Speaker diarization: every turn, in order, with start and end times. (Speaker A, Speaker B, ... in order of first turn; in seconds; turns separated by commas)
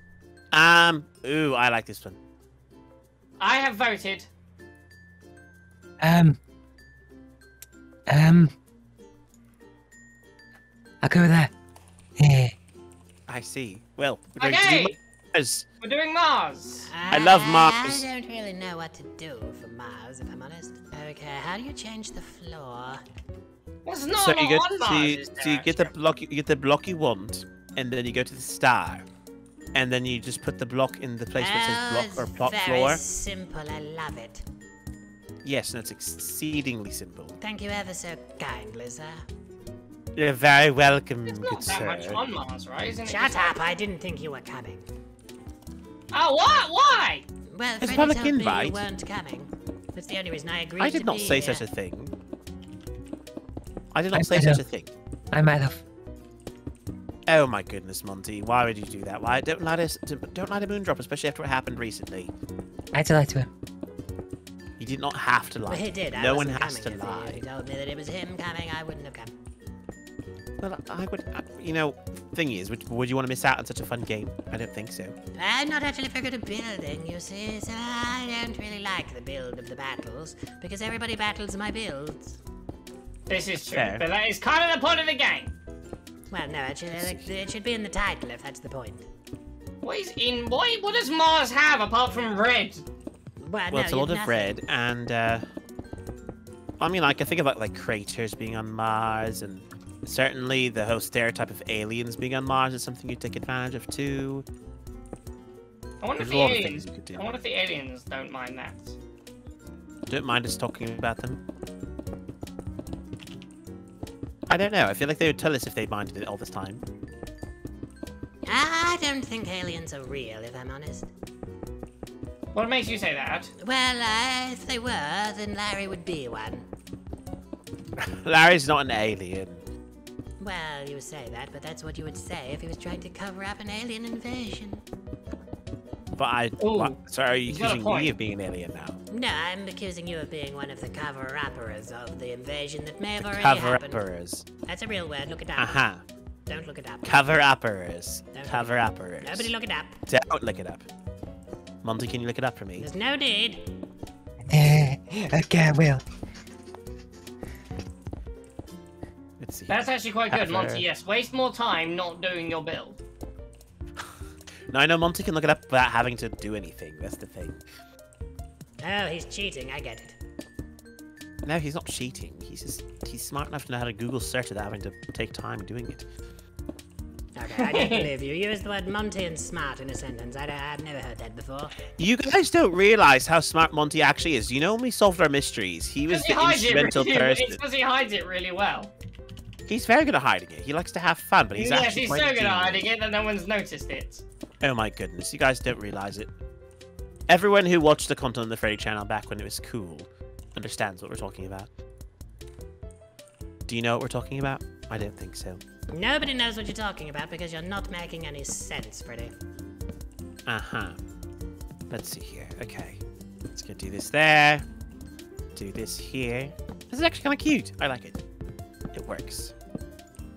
Speaker A: 0.5-2.2, Speaker B: 3.4-4.3, Speaker C: 6.0-6.4, Speaker C: 8.1-8.5, Speaker C: 11.0-11.5, Speaker C: 12.2-12.5, Speaker A: 13.3-15.7, Speaker B: 14.4-15.0, Speaker B: 15.8-16.9, Speaker D: 16.8-23.0, Speaker A: 17.1-18.1, Speaker B: 23.9-25.9, Speaker A: 24.2-29.1, Speaker A: 29.7-33.0, Speaker D: 31.4-34.4, Speaker A: 35.4-37.4, Speaker D: 37.4-39.2, Speaker A: 40.1-42.2, Speaker B: 41.3-43.8, Speaker D: 43.1-44.9, Speaker B: 46.1-47.2, Speaker D: 47.5-51.7, Speaker A: 47.8-48.9, Speaker A: 50.8-52.1, Speaker A: 53.9-54.9, Speaker C: 54.1-54.6, Speaker C: 55.3-55.8, Speaker A: 57.3-62.3, Speaker C: 62.9-63.5, Speaker A: 64.8-67.4, Speaker D: 65.7-69.3, Speaker A: 70.6-75.2, Speaker D: 75.4-82.4, Speaker B: 83.3-85.5, Speaker A: 83.6-84.1, Speaker D: 86.3-89.1, Speaker A: 86.9-87.3, Speaker B: 89.8-92.8, Speaker D: 93.4-94.6, Speaker A: 93.7-95.4, Speaker A: 96.8-104.5, Speaker B: 106.0-109.0, Speaker A: 106.2-107.3, Speaker A: 110.1-111.4, Speaker A: 114.5-116.8, Speaker D: 118.5-121.1, Speaker B: 122.5-123.5, Speaker D: 123.6-126.7, Speaker A: 128.0-129.7, Speaker D: 130.4-134.8, Speaker A: 136.2-139.0, Speaker B: 136.6-138.1, Speaker D: 139.1-144.1, Speaker A: 143.2-144.5, Speaker D: 144.7-145.8, Speaker A: 145.6-146.0, Speaker D: 146.5-147.2, Speaker A: 147.0-149.5, Speaker D: 148.3-149.9, Speaker A: 150.1-150.9, Speaker A: 151.8-152.9, Speaker D: 152.8-153.6, Speaker C: 154.5-156.0, Speaker A: 159.4-160.9, Speaker B: 159.7-163.0, Speaker A: 164.7-167.6, Speaker D: 168.8-170.2, Speaker A: 171.4-176.1, Speaker D: 177.3-181.8, Speaker B: 177.6-178.1, Speaker A: 181.9-187.6, Speaker B: 186.1-188.9, Speaker A: 189.7-192.9, Speaker B: 191.6-194.2, Speaker A: 194.6-196.3, Speaker A: 197.3-201.7, Speaker A: 203.7-205.6, Speaker D: 205.9-209.3, Speaker A: 210.5-211.0, Speaker A: 211.9-213.0, Speaker A: 213.5-214.7, Speaker A: 215.6-218.2, Speaker A: 218.9-219.6